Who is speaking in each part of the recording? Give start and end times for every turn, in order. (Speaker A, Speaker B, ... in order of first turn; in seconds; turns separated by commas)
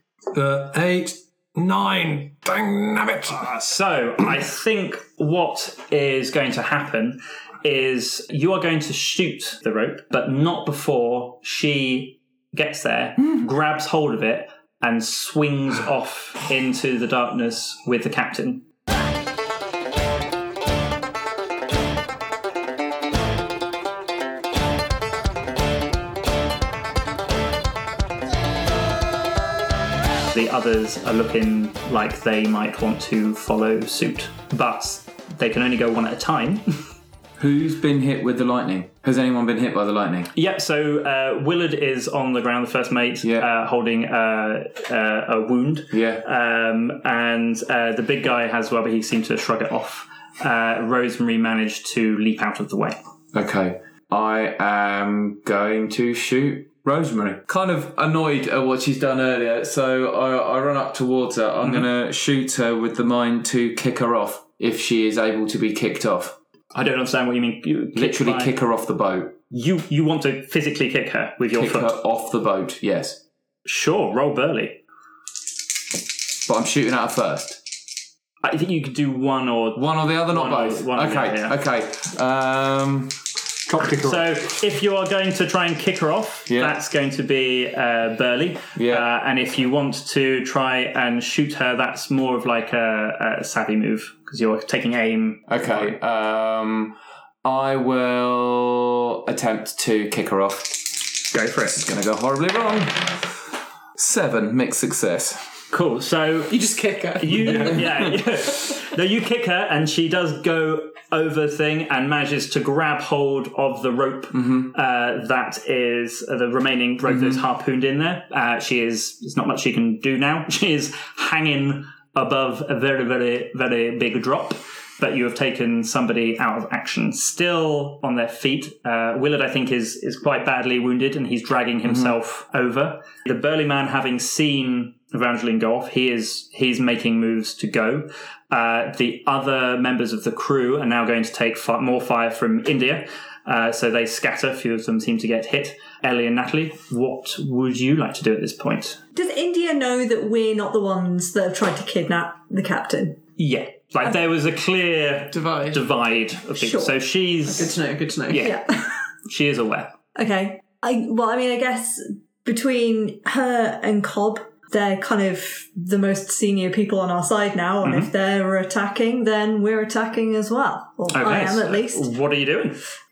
Speaker A: 0.3-3.4, Speaker B: 3.3-18.6, Speaker B: 30.3-36.8, Speaker C: 37.4-40.3, Speaker B: 40.3-53.0, Speaker C: 43.2-43.5, Speaker C: 45.9-46.2, Speaker C: 53.3-66.4, Speaker B: 61.6-61.9, Speaker B: 66.7-68.5, Speaker C: 67.9-69.4, Speaker B: 69.5-72.0, Speaker C: 71.5-73.2, Speaker B: 73.6-74.8, Speaker C: 76.4-77.6, Speaker B: 78.4-81.5, Speaker C: 79.8-83.2, Speaker A: 83.7-84.4, Speaker B: 84.0-96.0, Speaker C: 86.5-86.8, Speaker C: 88.7-89.1, Speaker C: 95.5-100.8, Speaker B: 101.3-101.8, Speaker C: 101.7-103.1, Speaker C: 104.0-105.4, Speaker B: 105.7-106.6, Speaker D: 106.5-107.9, Speaker B: 107.2-149.0, Speaker C: 114.3-114.7, Speaker C: 117.1-117.4, Speaker C: 131.9-132.1, Speaker E: 149.1-153.2, Speaker B: 153.4-158.6, Speaker D: 155.3-155.8, Speaker E: 156.6-156.9, Speaker D: 157.4-158.5, Speaker E: 158.3-158.9, Speaker B: 159.2-159.9, Speaker E: 160.2-172.1, Speaker B: 167.8-168.1, Speaker B: 171.1-172.8